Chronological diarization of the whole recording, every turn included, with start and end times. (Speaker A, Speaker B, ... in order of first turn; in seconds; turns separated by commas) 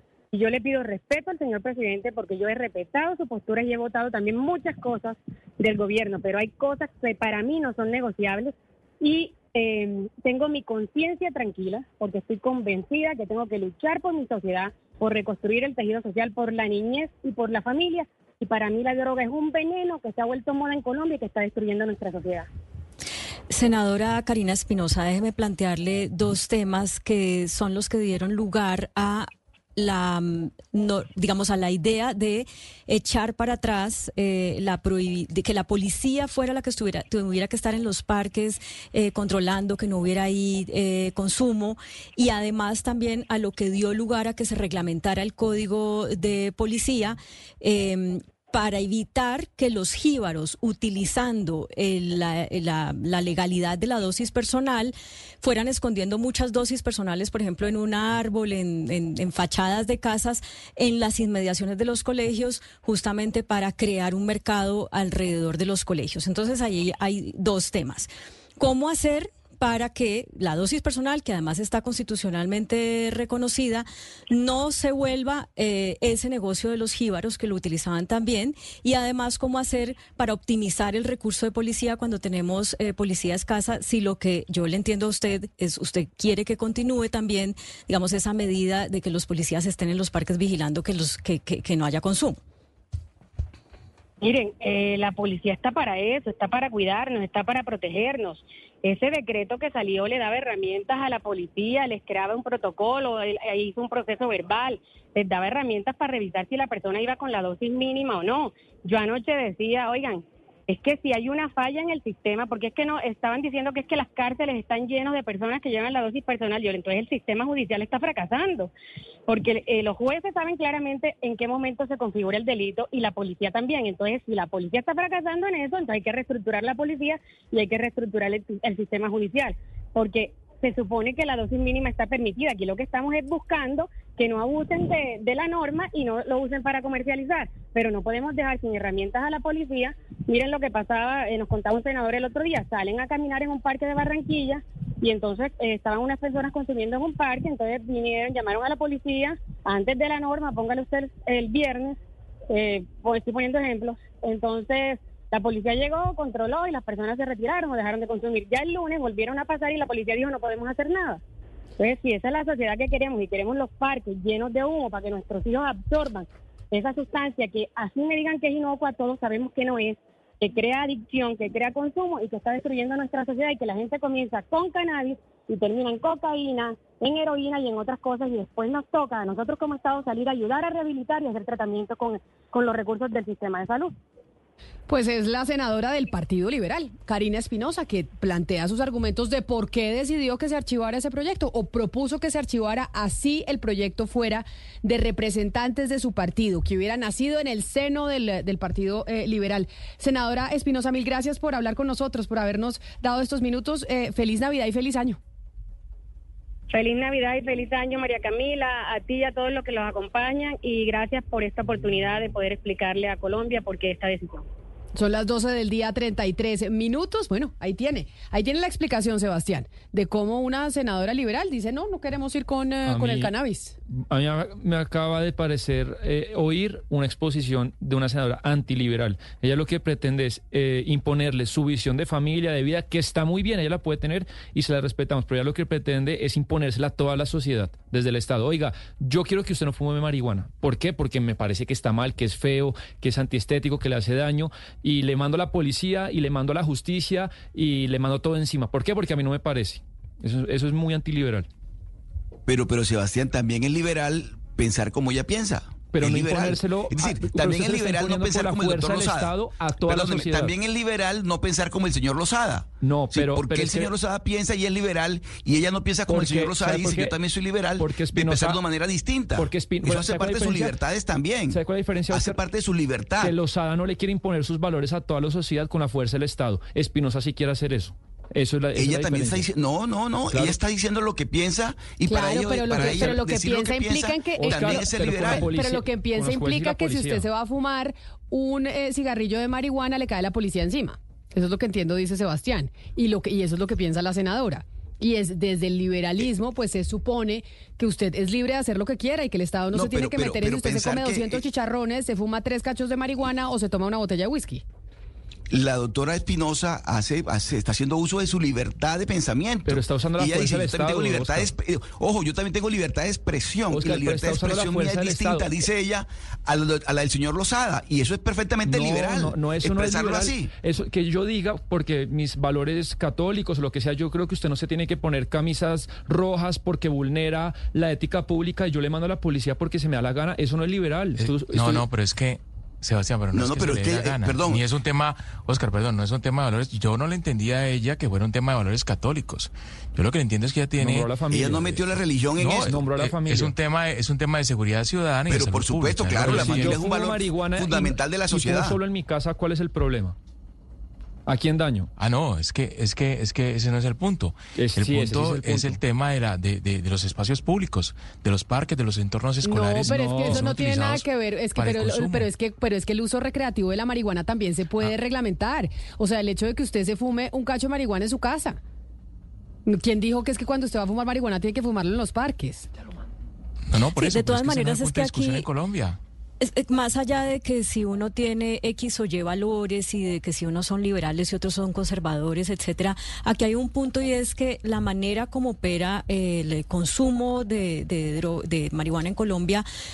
Speaker A: 0.3-22.5, Speaker B: 23.5-92.4, Speaker A: 94.2-118.7, Speaker A: 119.3-152.0, Speaker A: 152.5-161.2, Speaker A: 161.8-183.9, Speaker C: 184.9-205.2, Speaker A: 206.7-214.4, Speaker C: 214.9-223.8, Speaker D: 222.9-223.3, Speaker D: 223.9-251.5, Speaker E: 252.5-259.3, Speaker D: 255.9-260.5, Speaker E: 259.8-271.6, Speaker D: 262.8-263.9, Speaker D: 266.1-267.2, Speaker D: 267.8-268.6, Speaker D: 269.4-270.8, Speaker D: 271.5-272.4, Speaker E: 272.1-273.3, Speaker D: 273.2-279.5, Speaker E: 278.8-285.6, Speaker D: 280.3-280.6, Speaker C: 282.1-304.6, Speaker D: 282.7-283.2, Speaker D: 284.4-287.3, Speaker E: 299.7-301.4, Speaker E: 305.5-320.5, Speaker D: 309.7-311.5, Speaker D: 313.7-315.6, Speaker D: 318.6-331.9, Speaker F: 331.2-341.8, Speaker E: 333.3-334.6, Speaker D: 340.8-341.7, Speaker E: 341.3-342.7, Speaker F: 342.4-346.8, Speaker D: 342.5-343.5, Speaker E: 345.3-348.8, Speaker D: 346.2-350.2, Speaker D: 351.3-351.9, Speaker F: 352.0-362.3, Speaker D: 354.6-355.8, Speaker C: 359.4-368.6, Speaker D: 359.9-360.5, Speaker C: 369.7-372.7, Speaker F: 373.7-376.0, Speaker B: 373.9-375.5, Speaker B: 376.4-389.6